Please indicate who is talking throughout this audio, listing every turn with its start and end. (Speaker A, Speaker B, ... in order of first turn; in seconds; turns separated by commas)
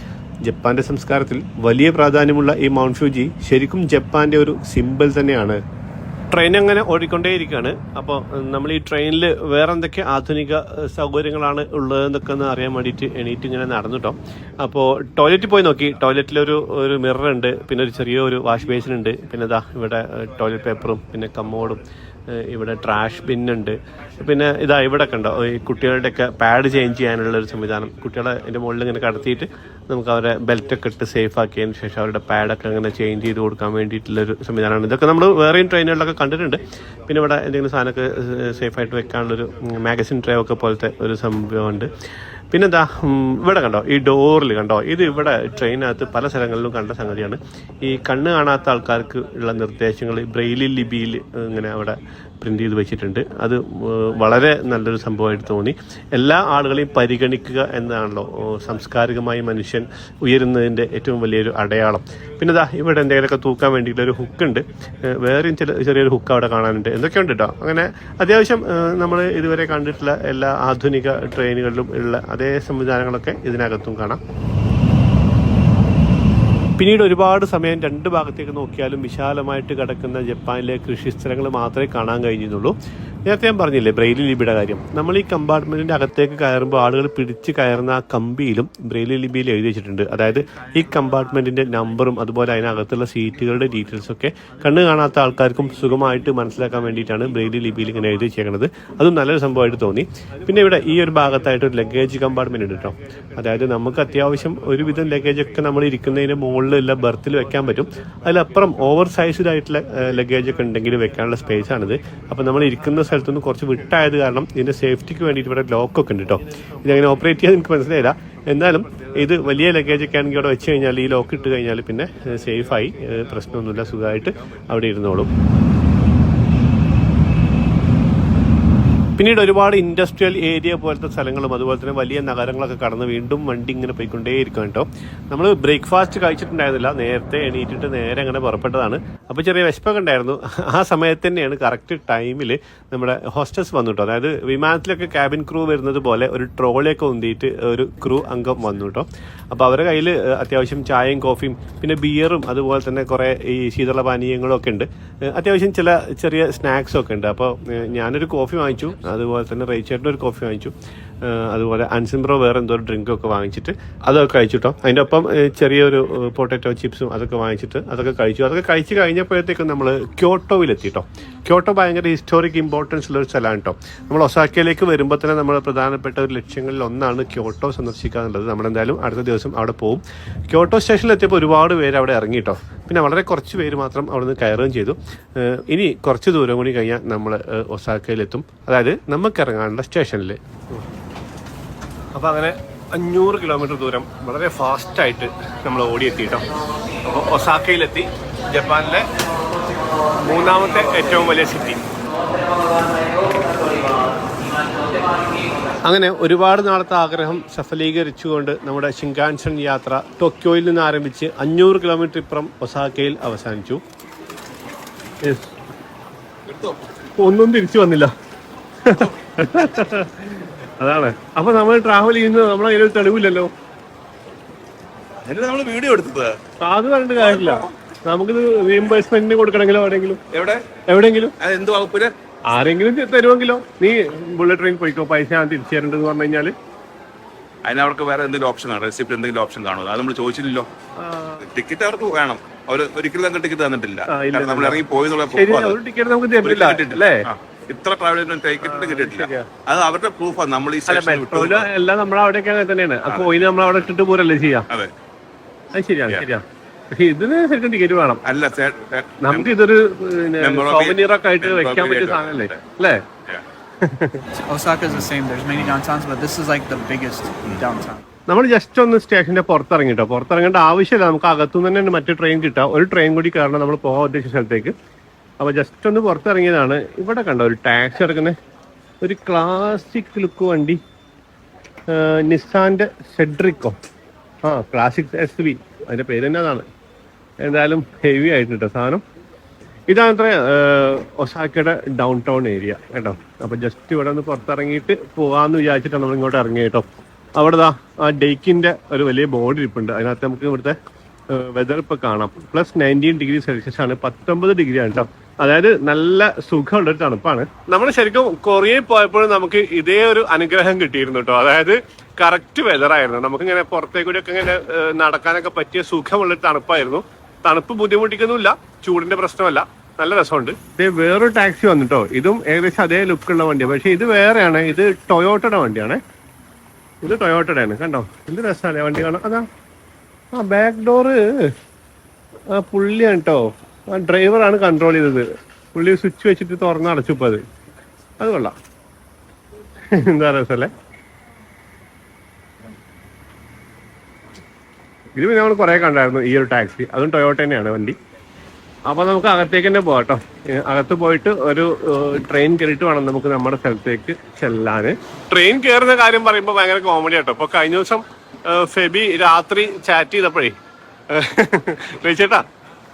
Speaker A: 0.4-5.6, Speaker A: 6.3-41.9, Speaker A: 42.5-74.2, Speaker A: 76.8-82.8, Speaker A: 83.3-125.3, Speaker A: 129.2-190.8, Speaker A: 192.2-196.5, Speaker A: 197.0-199.1, Speaker A: 200.2-201.8, Speaker A: 205.8-213.8, Speaker A: 215.2-215.5, Speaker B: 216.5-216.8, Speaker A: 217.2-218.1, Speaker A: 218.8-223.5, Speaker B: 225.2-226.4, Speaker A: 226.6-230.2, Speaker B: 227.2-227.7, Speaker B: 230.3-230.6, Speaker A: 230.9-231.3, Speaker B: 231.4-232.1, Speaker A: 232.5-236.5, Speaker B: 237.7-240.7, Speaker A: 241.0-241.4, Speaker B: 241.4-245.8, Speaker A: 244.1-247.3, Speaker B: 246.4-251.7, Speaker A: 248.6-249.5, Speaker A: 250.9-254.7, Speaker A: 255.7-258.2, Speaker B: 258.2-259.6, Speaker A: 259.2-263.1, Speaker B: 260.4-262.6, Speaker A: 263.8-264.2, Speaker C: 264.4-268.1, Speaker B: 264.9-265.8, Speaker A: 268.3-274.7, Speaker A: 275.4-278.4, Speaker A: 279.0-280.8, Speaker A: 281.9-283.8, Speaker A: 284.4-286.7, Speaker A: 287.4-289.0, Speaker A: 289.9-300.8, Speaker A: 301.3-326.0, Speaker A: 327.0-329.5, Speaker A: 330.3-331.5, Speaker A: 332.5-337.4, Speaker A: 338.2-338.6, Speaker A: 339.9-340.7, Speaker A: 345.1-347.9, Speaker A: 348.9-360.6, Speaker A: 361.1-362.4